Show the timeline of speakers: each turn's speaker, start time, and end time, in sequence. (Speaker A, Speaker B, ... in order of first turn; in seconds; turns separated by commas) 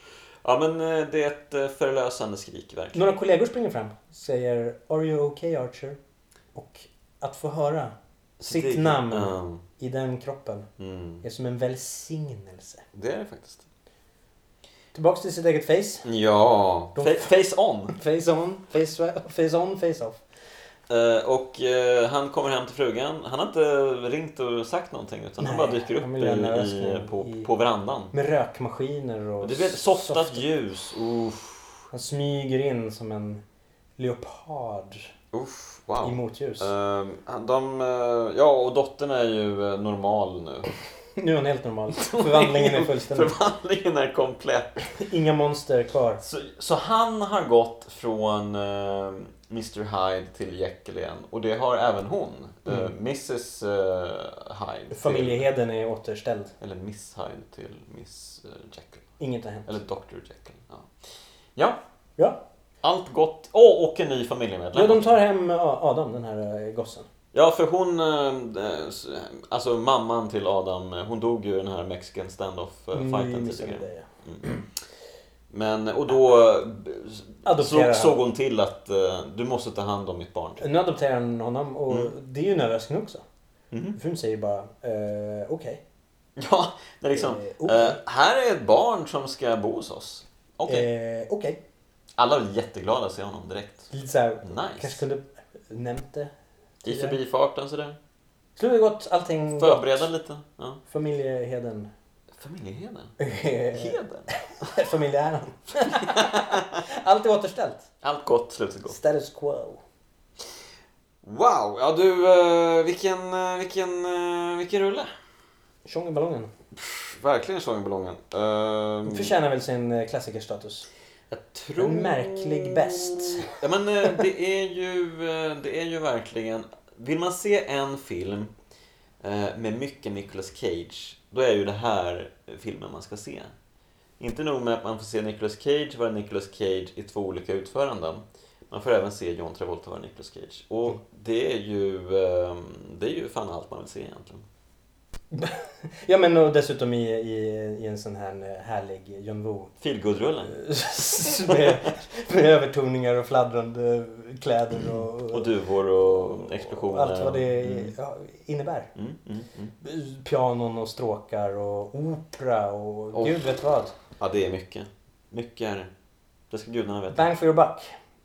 Speaker A: 0.4-3.1, Speaker B: 2.9-6.0, Speaker B: 6.5-8.0, Speaker A: 8.4-9.6, Speaker B: 8.5-10.7, Speaker A: 10.8-11.2, Speaker B: 11.2-12.8, Speaker A: 12.9-13.7, Speaker B: 14.9-16.1, Speaker A: 16.0-17.9, Speaker B: 17.0-17.3, Speaker B: 17.9-20.2, Speaker A: 20.9-28.1, Speaker B: 25.4-27.5, Speaker B: 28.1-30.4, Speaker A: 29.4-31.9, Speaker B: 31.9-33.4, Speaker B: 34.0-35.1, Speaker A: 35.3-40.7, Speaker B: 36.0-36.7, Speaker B: 41.2-43.4, Speaker A: 41.9-44.7, Speaker B: 44.8-46.2, Speaker A: 46.2-55.5, Speaker B: 54.9-56.5, Speaker A: 56.6-59.0, Speaker B: 59.2-59.8, Speaker A: 59.7-60.9, Speaker A: 62.8-65.1, Speaker B: 64.7-67.1, Speaker A: 67.3-74.5, Speaker B: 72.9-74.7, Speaker A: 75.5-80.6, Speaker B: 77.5-78.2, Speaker B: 80.6-83.2, Speaker A: 83.7-84.0, Speaker B: 84.0-85.8, Speaker A: 86.4-90.9, Speaker B: 87.1-88.0, Speaker B: 90.7-91.6, Speaker A: 92.2-93.9, Speaker B: 93.9-96.3, Speaker A: 94.4-95.0, Speaker A: 96.8-98.0, Speaker B: 96.8-97.2, Speaker B: 98.6-100.1, Speaker A: 99.5-100.8, Speaker B: 100.9-101.9, Speaker A: 102.3-103.2, Speaker B: 103.2-107.9, Speaker A: 103.7-104.3, Speaker A: 106.0-106.8, Speaker A: 108.0-109.0, Speaker B: 108.9-109.8, Speaker A: 111.2-115.1, Speaker B: 115.8-116.5, Speaker A: 116.7-119.3, Speaker B: 119.1-120.9, Speaker A: 121.3-128.5, Speaker B: 121.8-123.6, Speaker A: 129.2-133.5, Speaker A: 134.2-144.4, Speaker B: 145.3-149.7, Speaker A: 149.8-150.6, Speaker B: 150.4-155.5, Speaker A: 154.9-157.9, Speaker B: 156.2-158.9, Speaker A: 159.0-159.7, Speaker B: 159.8-163.9, Speaker A: 163.1-163.4, Speaker A: 164.2-165.9, Speaker A: 166.5-167.3, Speaker B: 167.1-167.9